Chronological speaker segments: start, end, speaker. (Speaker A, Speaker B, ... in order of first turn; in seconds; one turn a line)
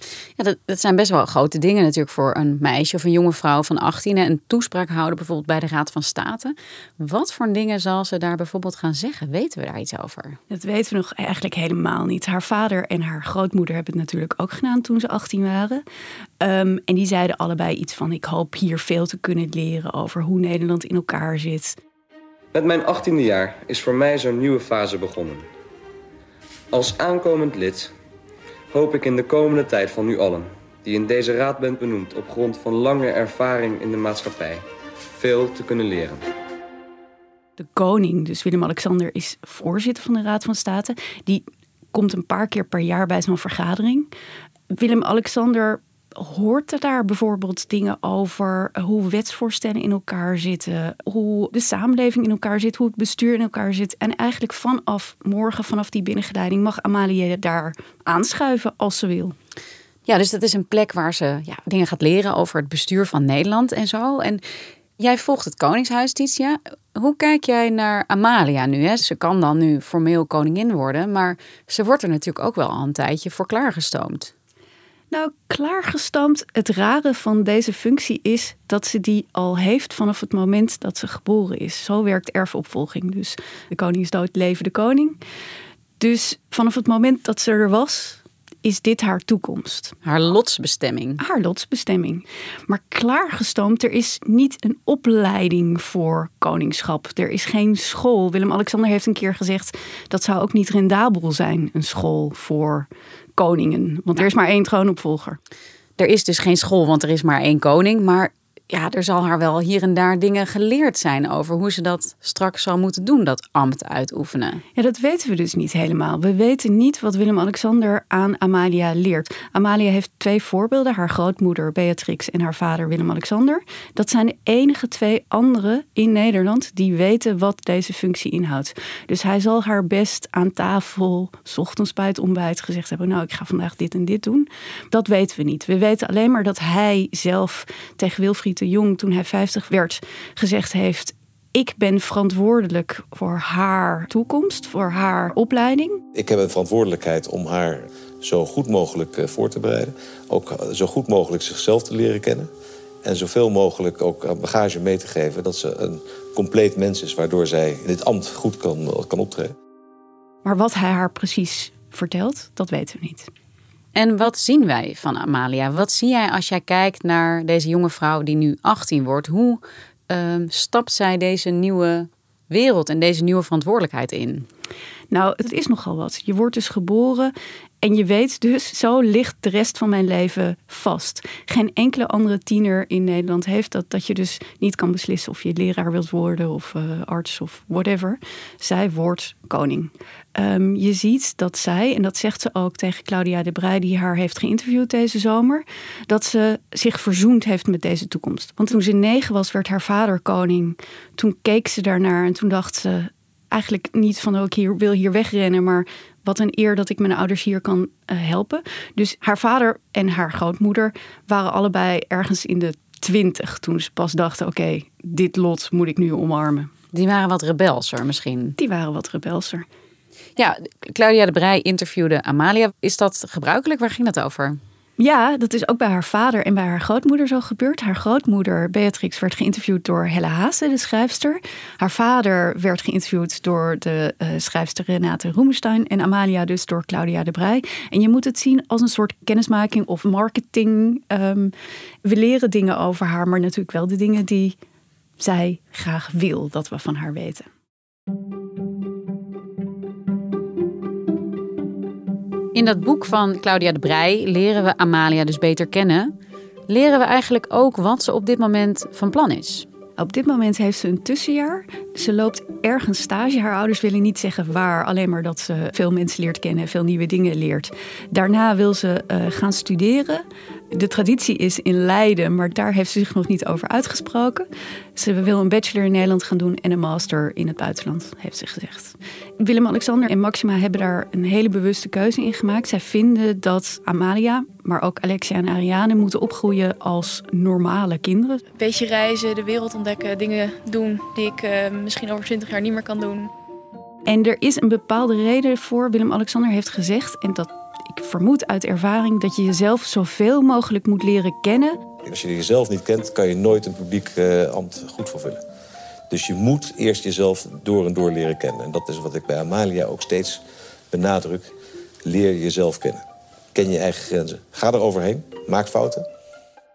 Speaker A: 0.4-10.4
Speaker B: 10.5-15.8
Speaker B: 16.4-21.8
Speaker C: 22.5-25.5
Speaker C: 26.7-27.9
Speaker C: 28.7-36.2
Speaker B: 37.6-44.1
Speaker B: 44.7-59.3
Speaker A: 60.1-64.4
Speaker A: 65.0-74.3
Speaker B: 75.1-85.2
Speaker B: 86.0-89.9
Speaker A: 90.0-91.2
Speaker B: 91.2-105.4
Speaker A: 106.0-114.6
Speaker B: 114.7-146.0
Speaker D: 146.1-152.5
Speaker D: 153.0-159.5
Speaker B: 160.4-163.3
Speaker A: 163.9-174.5
Speaker B: 175.1-216.7
Speaker A: 216.9-218.6
Speaker B: 218.6-219.7
Speaker A: 220.4-224.6
Speaker B: 225.0-241.5
Speaker B: 242.0-244.6
Speaker B: 245.2-247.5
Speaker A: 252.5-256.1
Speaker A: 256.7-259.6
Speaker B: 260.0-288.4
Speaker E: 288.5-293.3
Speaker B: 294.1-301.8
Speaker D: 302.0-305.4
Speaker D: 306.1-311.5
Speaker D: 312.0-313.0
Speaker D: 313.5-316.1